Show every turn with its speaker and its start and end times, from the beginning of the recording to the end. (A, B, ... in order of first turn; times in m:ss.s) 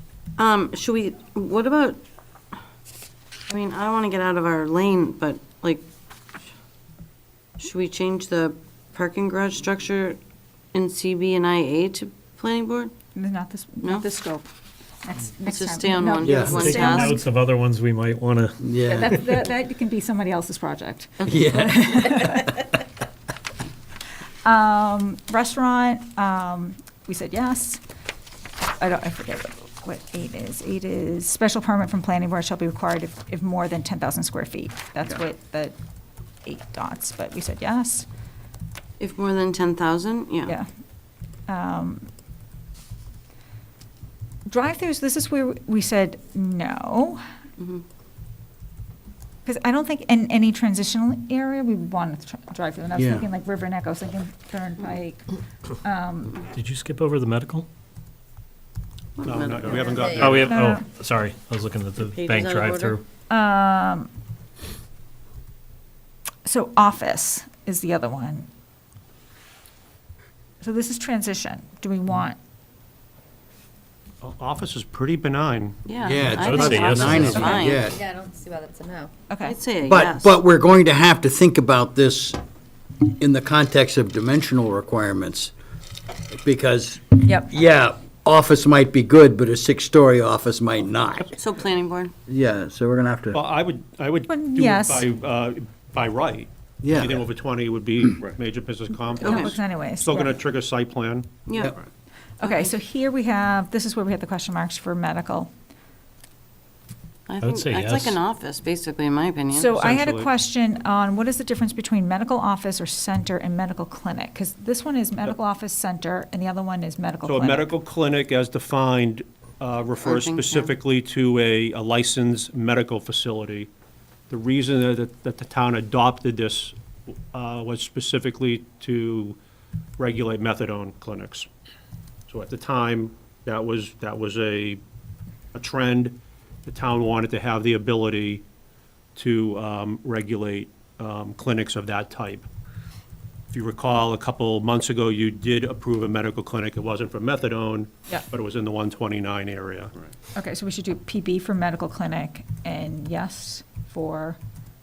0:00.4-0:02.0 A
0:03.5-0:05.8 A
0:07.6-0:10.2 A
0:10.7-0:12.9 A
0:13.1-0:14.4 B
0:15.0-0:17.2 B
0:15.4-0:17.2 A
0:16.2-0:16.7 C
0:16.6-0:18.6 D
0:18.6-0:19.2 C
0:18.8-0:22.7 B
0:21.2-0:22.2 C
0:24.4-0:27.8 B
0:28.8-0:35.7 B
0:36.4-0:38.0 B
0:39.0-0:40.6 A
0:41.5-0:42.1 B
0:44.5-0:47.2 B
0:47.6-0:47.8 A
0:49.4-0:55.3 B
0:53.0-0:53.3 C
0:55.8-0:56.4 B
0:56.5-0:57.7 D
0:59.2-1:00.4 A
0:59.2-1:00.3 E
0:59.8-1:00.5 F
1:00.1-1:03.0 D
1:00.4-1:00.8 B
1:02.0-1:03.0 A
1:03.3-1:04.1 B
1:06.4-1:08.5 B
1:10.6-1:12.4 B
1:14.2-1:15.8 E
1:15.8-1:17.8 A
1:16.0-1:18.0 C
1:16.3-1:17.6 D
1:17.2-1:19.1 F
1:19.3-1:19.6 B
1:19.4-1:20.3 A
1:19.8-1:22.4 C
1:23.2-1:25.5 C
1:26.4-1:31.3 C
1:31.4-1:32.1 A
1:32.3-1:33.4 C
1:33.3-1:41.3 E
1:34.3-1:35.0 B
1:36.8-1:37.2 C
1:39.2-1:40.4 B
1:39.2-1:39.6 A
1:41.5-1:41.7 A
1:42.4-1:45.5 B
1:42.4-1:42.7 A
1:47.3-1:49.7 A
1:47.4-1:48.2 D
1:49.5-1:57.7 B
1:49.7-1:50.3 E
1:57.2-2:03.7 E
2:00.0-2:00.7 A
2:04.3-2:06.8 E
2:07.3-2:09.4 E
2:10.0-2:11.5 E
2:12.3-2:14.8 E
2:15.5-2:18.4 E
2:19.1-2:22.5 E
2:23.5-2:29.9 E
2:30.4-2:34.4 B